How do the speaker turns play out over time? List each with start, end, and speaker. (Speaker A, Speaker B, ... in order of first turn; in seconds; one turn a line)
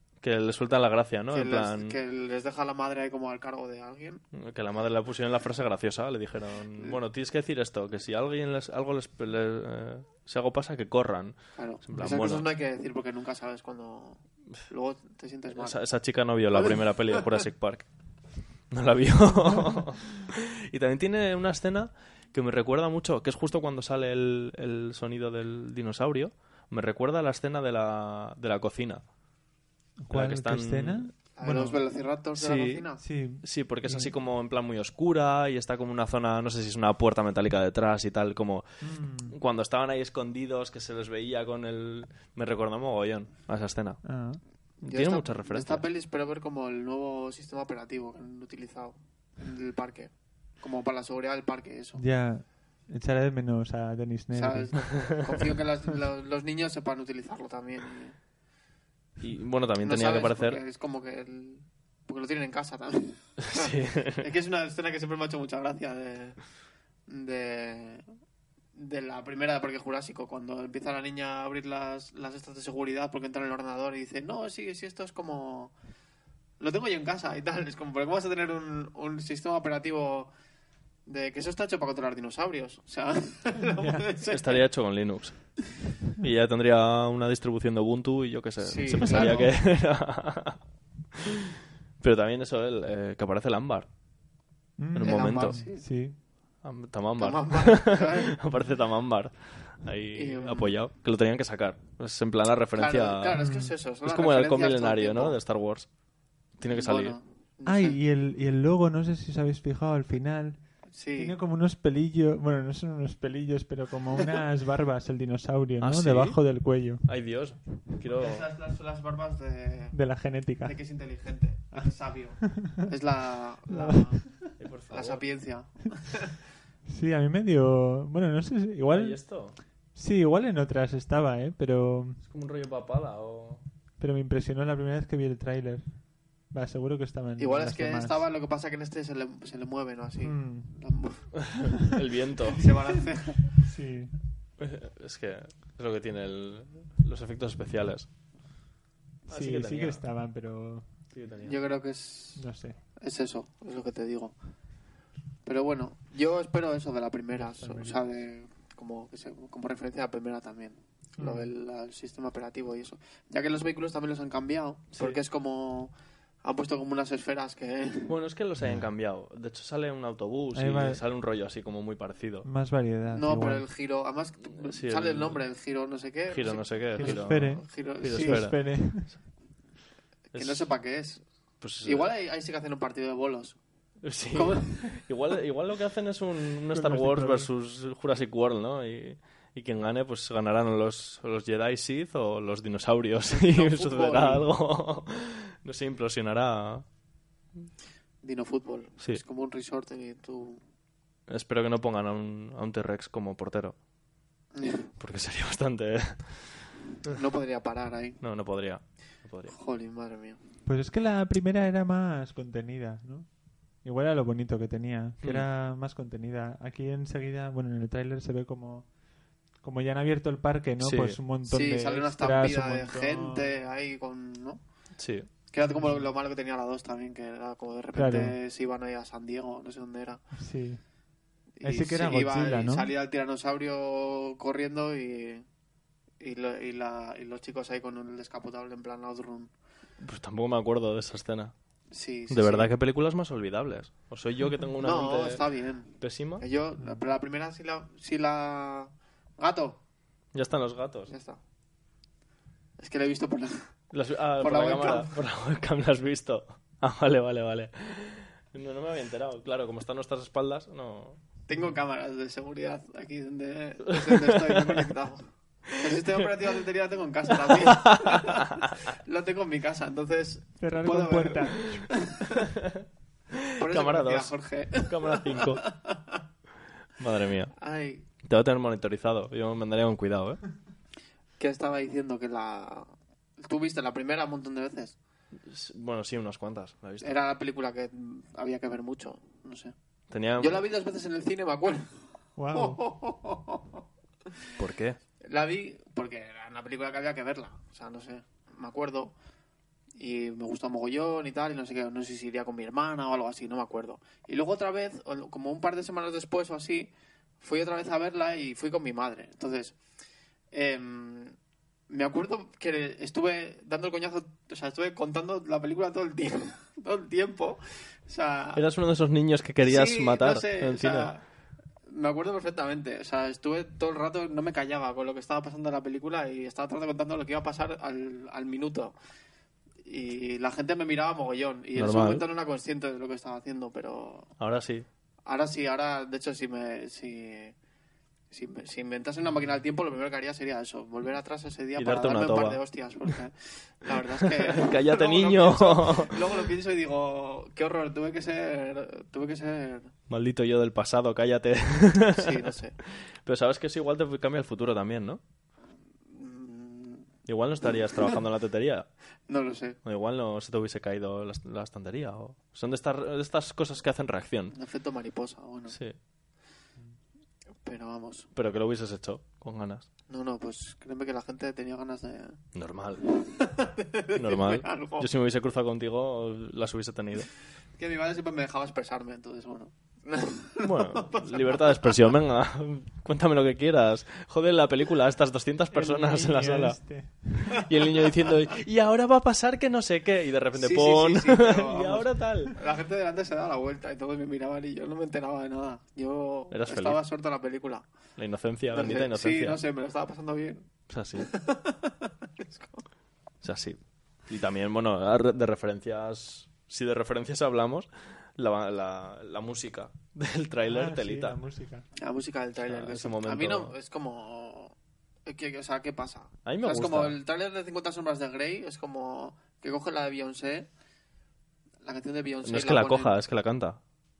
Speaker A: 0.2-2.0
Speaker B: 1.3-4.2
Speaker A: 4.3-12.5
Speaker B: 11.6-15.8
Speaker A: 15.5-17.9
Speaker B: 16.5-17.4
Speaker A: 18.7-29.0
Speaker C: 30.0-31.8
Speaker A: 30.1-31.1
Speaker B: 31.4-33.0
Speaker A: 32.4-32.9
Speaker C: 33.0-34.1
Speaker A: 33.4-38.6
Speaker C: 38.8-39.4
Speaker A: 39.3-44.0
Speaker C: 44.0-44.4
Speaker A: 44.8-45.9
Speaker B: 44.8-52.0
Speaker C: 52.0-54.9
Speaker B: 54.3-58.2
Speaker A: 59.2-60.6
Speaker B: 59.8-66.4
Speaker A: 63.4-64.3
Speaker B: 67.1-68.0
Speaker B: 68.8-75.7
Speaker B: 76.6-80.3
Speaker B: 81.1-84.6
Speaker C: 83.8-84.0
Speaker A: 84.3-85.6
Speaker A: 86.1-90.6
Speaker B: 88.6-89.5
Speaker C: 88.9-89.5
Speaker A: 91.1-93.9
Speaker C: 94.8-96.2
Speaker A: 94.9-95.6
Speaker B: 95.0-95.9
Speaker A: 96.6-103.4
Speaker B: 97.2-98.4
Speaker B: 100.1-100.8
Speaker B: 102.7-105.4
Speaker C: 103.4-103.7
Speaker A: 104.0-105.9
Speaker A: 106.6-107.2
Speaker B: 106.7-108.0
Speaker C: 107.7-117.1
Speaker B: 110.9-111.3
Speaker A: 115.8-118.5
Speaker B: 118.1-120.0
Speaker C: 119.9-120.8
Speaker B: 120.6-124.3
Speaker C: 122.4-122.8
Speaker C: 123.7-124.5
Speaker A: 124.6-125.2
Speaker B: 124.9-126.4
Speaker C: 126.9-129.2
Speaker A: 128.9-129.6
Speaker C: 129.9-132.2
Speaker A: 132.2-133.6
Speaker C: 134.0-138.3
Speaker B: 137.4-141.6
Speaker C: 140.2-140.8
Speaker A: 141.4-142.7
Speaker B: 142.6-143.6
Speaker C: 143.5-144.1
Speaker A: 144.6-148.1
Speaker A: 149.3-150.0
Speaker C: 149.3-150.9
Speaker A: 151.1-151.6
Speaker B: 151.4-152.4
Speaker C: 152.4-152.8
Speaker B: 153.0-154.3
Speaker B: 155.5-165.9
Speaker C: 157.3-158.2
Speaker C: 161.2-161.5
Speaker B: 166.4-168.2
Speaker A: 168.1-172.5
Speaker C: 168.6-168.9
Speaker C: 170.5-171.0
Speaker C: 172.4-173.7
Speaker B: 173.1-178.7
Speaker A: 174.6-175.4
Speaker A: 176.3-179.2
Speaker C: 177.0-179.2
Speaker B: 180.3-181.2
Speaker A: 180.3-180.7
Speaker A: 181.6-182.1
Speaker B: 181.8-183.6
Speaker A: 184.0-196.9
Speaker B: 184.3-185.0
Speaker C: 186.7-187.5
Speaker B: 193.3-194.5
Speaker B: 198.2-200.6
Speaker A: 201.3-203.8
Speaker B: 204.6-204.9
Speaker A: 205.0-206.7
Speaker B: 207.0-208.2
Speaker A: 208.2-209.6
Speaker B: 209.5-210.4
Speaker C: 210.7-218.9
Speaker C: 219.6-223.5
Speaker A: 220.8-221.2
Speaker B: 221.5-224.6
Speaker A: 225.0-225.3
Speaker B: 225.5-230.2
Speaker C: 225.6-226.1
Speaker C: 227.9-228.3
Speaker C: 230.3-230.8
Speaker B: 231.6-235.4
Speaker C: 231.6-232.9
Speaker B: 236.2-239.5
Speaker A: 240.0-241.5
Speaker B: 241.9-242.7
Speaker A: 242.3-245.4
Speaker B: 244.8-249.8
Speaker A: 246.0-246.4
Speaker C: 246.8-247.0
Speaker A: 250.3-251.1
Speaker B: 251.1-251.4
Speaker B: 252.8-253.7
Speaker A: 253.9-261.2
Speaker B: 254.4-255.1
Speaker B: 261.5-272.5
Speaker A: 263.9-264.9
Speaker A: 265.9-266.3
Speaker A: 267.4-268.7
Speaker C: 270.6-271.9
Speaker A: 272.4-275.6
Speaker B: 273.6-276.2
Speaker A: 277.0-277.6
Speaker B: 277.6-278.1
Speaker A: 278.2-280.4
Speaker B: 281.4-285.0
Speaker A: 285.4-287.2
Speaker B: 287.0-289.7
Speaker A: 290.1-290.6
Speaker B: 290.4-292.0
Speaker C: 292.4-292.8
Speaker B: 292.5-293.8
Speaker A: 294.6-295.0
Speaker B: 295.2-299.1
Speaker B: 300.0-309.8
Speaker B: 310.5-311.4
Speaker B: 311.9-318.6
Speaker A: 318.6-321.1
Speaker B: 319.6-321.2
Speaker B: 321.9-328.9
Speaker B: 329.9-334.3
Speaker A: 331.8-332.2
Speaker A: 334.4-334.9
Speaker B: 335.3-337.6
Speaker B: 338.3-349.9
Speaker A: 341.8-342.6
Speaker A: 344.0-346.5
Speaker A: 350.1-355.2
Speaker B: 352.1-352.8
Speaker B: 356.1-357.1
Speaker A: 357.3-358.9
Speaker B: 359.3-359.8
Speaker A: 359.9-364.6
Speaker B: 364.5-365.8
Speaker A: 365.7-366.0
Speaker B: 367.6-368.3
Speaker A: 368.4-369.9
Speaker B: 370.1-372.4
Speaker A: 372.5-373.0
Speaker B: 373.1-375.1
Speaker A: 374.2-377.3
Speaker B: 377.8-382.0
Speaker A: 380.6-386.8
Speaker C: 385.7-387.6
Speaker A: 387.3-392.6
Speaker B: 390.6-397.9
Speaker A: 396.5-397.0
Speaker A: 398.2-399.6
Speaker B: 398.7-402.8
Speaker A: 400.9-401.3
Speaker A: 403.4-411.4
Speaker C: 410.7-411.9
Speaker B: 412.0-414.7
Speaker A: 412.6-413.7
Speaker B: 415.3-420.7
Speaker A: 416.4-417.2
Speaker B: 421.8-423.2
Speaker A: 422.4-423.8